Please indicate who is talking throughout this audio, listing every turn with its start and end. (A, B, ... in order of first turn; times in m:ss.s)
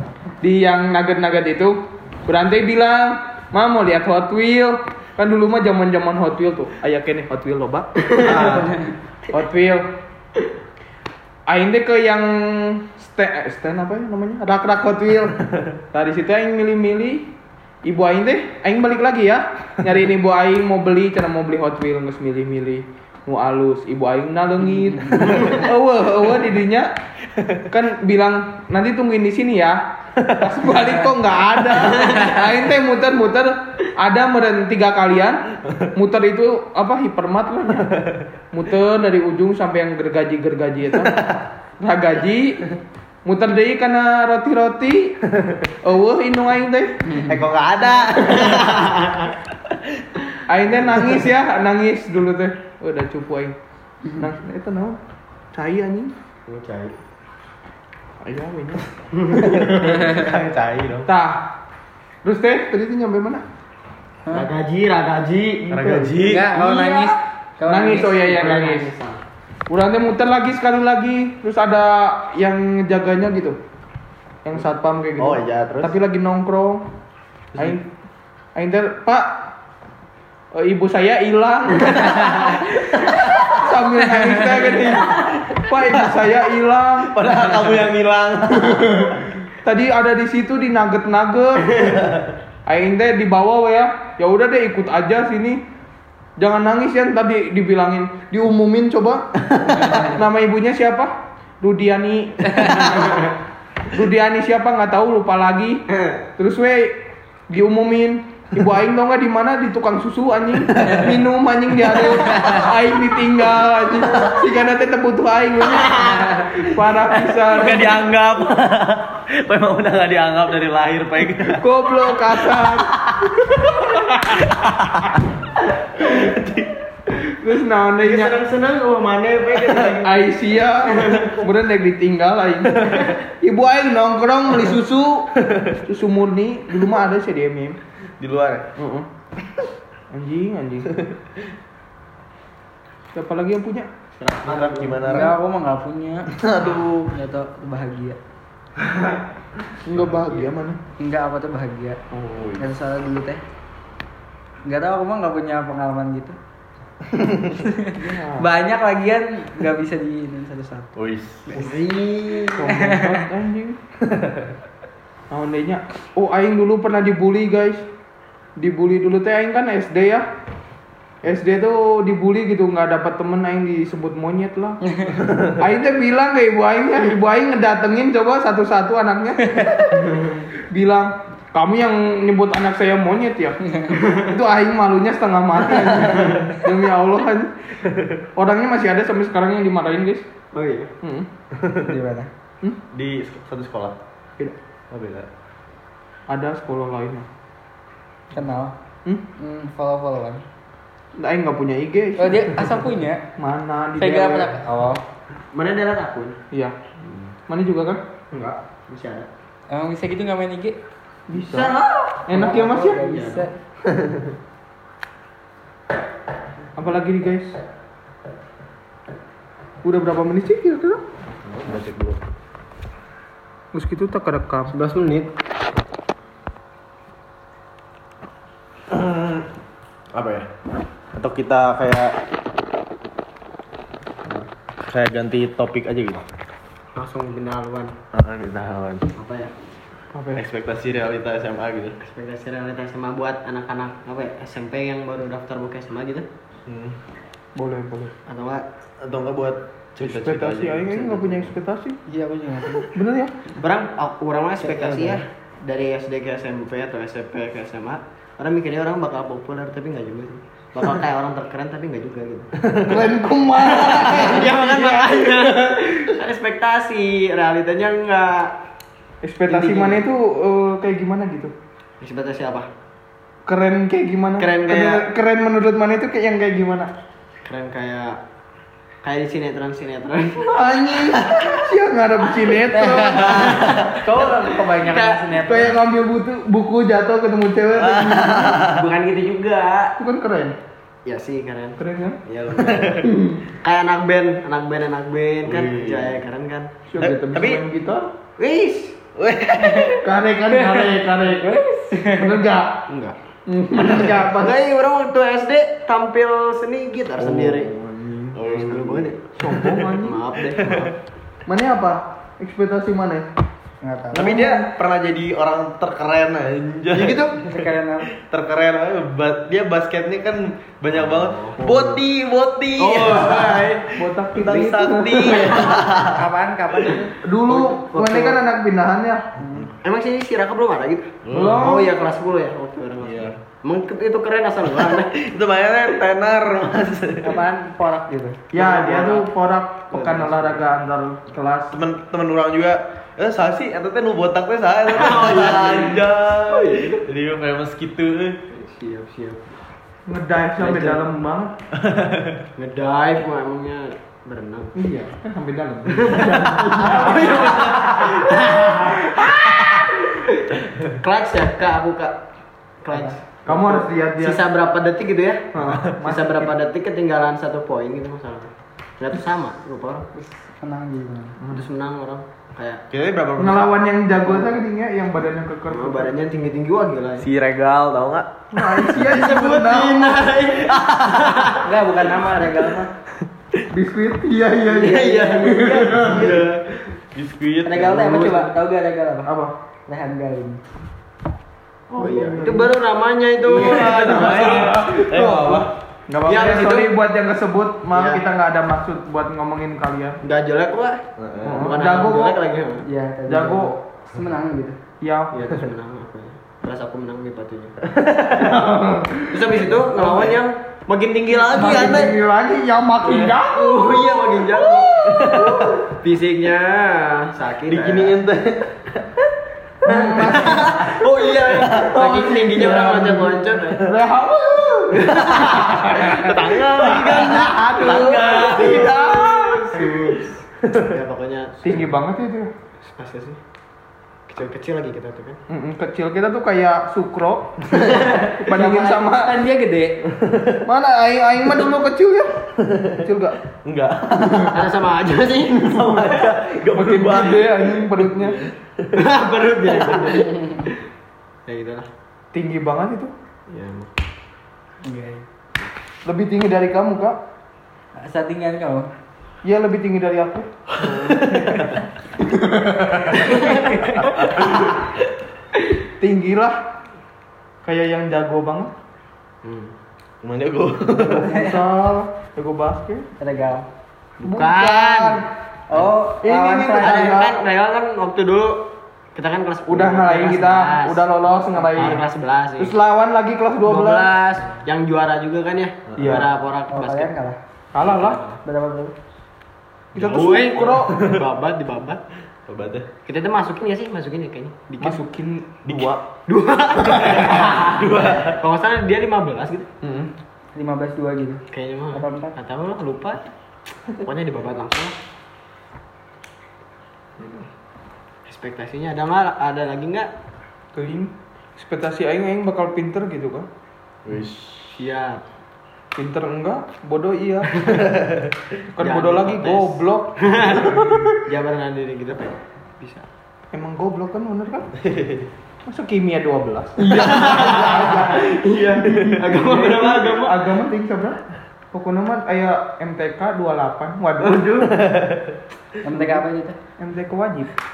0:00.4-0:01.7 A
0:02.3-0:08.6 A
0:08.2-0:08.7 B
0:08.4-0:08.9 C
0:09.3-0:09.8 A
0:11.5-0:15.4 A
0:15.9-0:17.3 A
0:17.8-0:26.9 A
0:24.6-0:25.6 C
0:27.4-0:27.6 B
0:27.7-0:29.8 A
0:30.2-0:30.5 B
0:30.3-0:35.4 A
0:31.9-0:32.4 D
0:32.0-0:32.3 C
0:35.9-0:37.9 A
0:37.9-0:38.2 B
0:38.5-0:41.1 A
0:40.9-0:41.4 B
0:41.8-0:42.6 A
0:43.2-0:45.2 A
0:45.3-0:45.6 B
0:45.8-0:47.1 A
0:47.1-0:47.4 C
0:47.2-0:48.9 B
0:48.3-0:49.3 D
0:50.5-0:53.5 A
0:54.2-0:55.0 A
0:55.5-0:56.1 A
0:56.5-0:57.0 D
0:58.2-0:58.8 A
0:59.2-0:59.9 D
0:59.3-1:01.1 B
1:01.0-1:01.4 A
1:02.2-1:03.4 A
1:04.3-1:06.1 D
1:05.7-1:06.5 B
1:05.8-1:07.1 A
1:06.2-1:08.3 C
1:07.6-1:08.9 A
1:08.3-1:09.2 D
1:09.7-1:13.6 A
1:14.4-1:16.8 A
1:15.2-1:15.9 B
1:17.6-1:17.8 A
1:18.6-1:19.3 A
1:20.5-1:27.1 A
1:22.0-1:23.2 C
1:23.0-1:23.6 B
1:24.0-1:24.9 C
1:27.1-1:29.3 B
1:29.6-1:32.0 A
1:31.8-1:32.3 B
1:32.6-1:35.6 A
1:36.4-1:39.2 A
1:39.8-1:43.3 A
1:43.9-1:45.8 A
1:46.4-1:46.9 A
1:47.5-1:58.0 A
1:52.3-1:52.6 C
1:57.5-2:03.8 B
2:01.4-2:02.9 A
2:03.9-2:04.4 A
2:04.3-2:05.2 B
2:06.0-2:06.7 B
2:07.4-2:08.4 A
2:08.0-2:10.3 D
2:09.6-2:09.9 B
2:10.0-2:12.8 A
2:10.8-2:11.4 D
2:13.4-2:15.3 A
2:15.4-2:15.8 B
2:15.8-2:17.8 A
2:18.2-2:18.6 B
2:18.8-2:19.1 A
2:20.1-2:20.9 A
2:23.1-2:23.9 A
2:24.2-2:25.1 D
2:24.5-2:25.4 B
2:25.0-2:26.3 C
2:26.3-2:27.1 B
2:27.1-2:28.2 C
2:29.8-2:30.8 A
2:31.0-2:32.0 C
2:32.1-2:32.5 A
2:32.4-2:32.6 B
2:32.6-2:33.4 C
2:34.6-2:36.4 C
2:37.5-2:40.9 C
2:37.9-2:38.5 A
2:40.9-2:41.5 B
2:41.5-2:42.7 D
2:42.6-2:43.8 A
2:42.7-2:43.2 C
2:44.0-2:44.5 B
2:45.3-2:47.8 A
2:48.6-2:50.2 A
2:51.2-3:00.0 A
2:59.6-2:59.8 C
2:59.9-3:00.4 D
3:00.7-3:07.5 A
3:07.8-3:08.2 B
3:08.3-3:10.2 A
3:10.5-3:10.9 D
3:11.0-3:11.3 A
3:11.5-3:11.9 B
3:11.8-3:12.3 C
3:12.9-3:14.0 B
3:14.9-3:15.3 B
3:16.3-3:17.2 A
3:18.3-3:18.7 C
3:19.3-3:20.4 C
3:21.2-3:22.8 A
3:22.2-3:23.2 C
3:23.4-3:24.6 A
3:24.0-3:25.0 C
3:25.5-3:26.4 D
3:27.5-3:28.0 A
3:28.3-3:29.3 D
3:29.7-3:30.8 C
3:31.3-3:33.0 A
3:31.4-3:31.8 D
3:32.3-3:33.5 C
3:33.0-3:33.5 D
3:36.8-3:37.6 A
3:39.8-3:41.0 A
3:41.5-3:42.2 B
3:43.7-3:44.7 A
3:44.7-3:45.3 D
3:48.9-3:49.4 B
3:50.1-3:50.5 B
3:51.1-3:52.1 B
3:54.9-3:56.2 B
3:56.9-3:57.9 D
3:58.1-3:59.0 B
3:59.2-3:59.5 D
4:00.1-4:00.4 A
4:00.4-4:02.0 B
4:02.0-4:06.3 D
4:06.7-4:07.0 B
4:07.6-4:08.1 A
4:08.3-4:08.6 D
4:09.0-4:11.6 B
4:10.0-4:12.0 A
4:12.1-4:12.9 C
4:12.9-4:13.3 A
4:13.5-4:22.5 D
4:14.6-4:15.2 C
4:22.7-4:23.0 B
4:22.8-4:24.5 A
4:23.6-4:28.5 D
4:23.9-4:25.5 B
4:29.2-4:31.5 A
4:29.5-4:30.1 D
4:32.0-4:32.7 D
4:33.4-4:36.9 A
4:34.4-4:35.0 D
4:37.4-4:38.2 D
4:39.0-4:40.5 D
4:40.4-4:43.7 A
4:42.7-4:45.7 C
4:43.1-4:45.4 D
4:45.4-4:48.6 A
4:47.7-4:48.8 B
4:48.6-4:49.9 D
4:50.0-4:50.6 A
4:51.0-4:53.1 D
4:51.8-4:52.2 A
4:52.6-4:53.0 B
4:53.0-4:53.4 A
4:53.6-4:56.7 D
4:55.4-4:56.2 B
4:56.9-4:58.1 A
4:57.0-4:57.6 B
4:58.4-4:59.0 D
4:59.2-5:00.0 B
5:00.0-5:02.7 A
5:00.4-5:02.4 C
5:02.9-5:03.2 D
5:03.5-5:04.5 A
5:03.7-5:07.8 D
5:07.2-5:09.9 B
5:08.3-5:09.2 D
5:09.4-5:10.2 A
5:10.0-5:11.0 D
5:10.6-5:10.9 B
5:11.5-5:13.2 A
5:13.8-5:14.6 C
5:14.1-5:26.1 B
5:16.9-5:17.4 D
5:17.4-5:18.1 C
5:20.9-5:21.6 D
5:22.8-5:23.9 D
5:24.0-5:25.6 A
5:25.2-5:25.7 D
5:25.6-5:27.1 C
5:27.2-5:29.3 A
5:27.5-5:28.4 D
5:29.4-5:29.7 C
5:29.7-5:35.1 D
5:31.2-5:31.7 B
5:31.3-5:31.9 A
5:33.0-5:33.3 B
5:34.8-5:37.3 B
5:37.2-5:38.4 C
5:38.5-5:41.7 A
5:38.5-5:39.3 D
5:39.9-5:40.6 D
5:41.7-5:48.4 B
5:44.9-5:47.0 D
5:48.5-5:49.5 D
5:50.0-5:51.5 A
5:50.6-5:51.1 D
5:51.8-5:52.4 B
5:52.6-5:54.7 D
5:54.8-5:57.2 A
5:56.0-6:02.2 D
5:56.3-5:58.7 B
6:02.8-6:05.4 D
6:03.4-6:04.4 A
6:05.5-6:06.5 A
6:06.0-6:10.1 D
6:10.1-6:11.4 C
6:11.4-6:11.6 A
6:11.5-6:12.8 D
6:12.9-6:13.7 B
6:13.4-6:16.1 A
6:14.3-6:14.5 D
6:15.7-6:17.3 D
6:17.2-6:18.3 B
6:18.5-6:20.3 A
6:18.9-6:21.6 D
6:20.7-6:21.5 B
6:21.6-6:22.9 C
6:23.7-6:26.1 A
6:24.7-6:26.5 D
6:24.7-6:25.7 C
6:26.0-6:27.9 B
6:27.6-6:29.3 C
6:27.8-6:28.6 D
6:29.2-6:29.5 A
6:29.9-6:30.6 C
6:31.9-6:32.7 A
6:31.9-6:34.7 D
6:33.5-6:35.7 B
6:33.6-6:40.2 A
6:33.7-6:34.3 C
6:36.2-6:36.9 D
6:37.9-6:38.2 D
6:40.2-6:42.8 D
6:41.2-6:41.7 B
6:41.4-6:42.4 A
6:42.8-6:44.8 C
6:43.3-6:43.8 A
6:45.0-6:45.3 A
6:45.3-6:47.8 D
6:47.9-6:48.5 B
6:48.4-6:50.4 A
6:49.3-6:52.1 D
6:51.3-6:52.2 B
6:51.5-6:55.8 A
6:53.0-6:58.2 D
6:55.0-6:55.6 B
6:57.7-6:59.0 B
6:59.8-7:00.8 A
6:59.9-7:03.9 D
7:00.2-7:02.0 B
7:01.9-7:09.9 A
7:05.0-7:05.7 D
7:05.0-7:09.4 B
7:06.8-7:11.9 D
7:11.6-7:12.5 A
7:12.8-7:13.4 D
7:14.3-7:15.4 D
7:15.5-7:19.4 A
7:17.8-7:18.3 D
7:18.0-7:20.0 C
7:20.1-7:20.6 B
7:20.6-7:22.3 A
7:22.6-7:22.9 B
7:23.0-7:23.4 A
7:23.6-7:24.7 B
7:24.5-7:25.7 D
7:25.5-7:27.9 B
7:25.7-7:26.2 A
7:26.7-7:28.4 A
7:28.2-7:30.7 D
7:31.4-7:31.9 D
7:32.3-7:33.1 A
7:33.5-7:33.9 D
7:34.8-7:35.2 C
7:36.0-7:37.2 A
7:38.0-7:38.9 C
7:39.4-7:40.5 A
7:40.8-7:41.4 D
7:41.2-7:41.7 B
7:42.2-7:43.2 A
7:43.2-7:44.3 D
7:43.2-7:43.8 C
7:46.0-7:46.5 A
7:47.6-7:48.7 A
7:49.4-7:49.7 D
7:50.2-7:51.4 B
7:51.0-7:53.0 A
7:53.2-7:53.7 C
7:54.2-7:55.2 D
7:54.2-7:55.2 A
7:55.7-7:57.2 C
7:56.2-7:57.4 A
7:56.7-8:01.1 D
7:59.6-8:02.0 A
8:01.7-8:02.7 D
8:02.6-8:04.1 A
8:03.6-8:07.1 D
8:05.9-8:06.3 B
8:06.0-8:06.3 A
8:06.7-8:07.4 C
8:07.7-8:08.2 A
8:07.8-8:08.4 D
8:08.4-8:08.9 C
8:09.9-8:11.0 A
8:10.0-8:12.0 D
8:12.5-8:12.9 B
8:13.0-8:15.0 D
8:14.8-8:16.0 A
8:15.6-8:16.0 B
8:16.3-8:19.7 D
8:16.9-8:18.4 B
8:19.8-8:20.1 A
8:20.5-8:22.3 C
8:21.5-8:23.2 D
8:23.9-8:25.0 D
8:28.3-8:30.1 D
8:30.7-8:33.5 A
8:34.0-8:34.8 B
8:34.7-8:35.2 D
8:35.9-8:37.5 A
8:37.8-8:38.3 B
8:38.7-8:41.1 A
8:38.8-8:43.1 D
8:43.5-8:44.7 A
8:44.8-8:45.2 B
8:45.6-8:51.2 A
8:46.8-8:50.5 D
8:51.7-8:54.5 A
8:54.4-8:54.6 D
8:54.4-8:55.4 B
8:55.8-8:56.6 C
8:55.9-8:56.2 A
8:56.8-8:57.5 A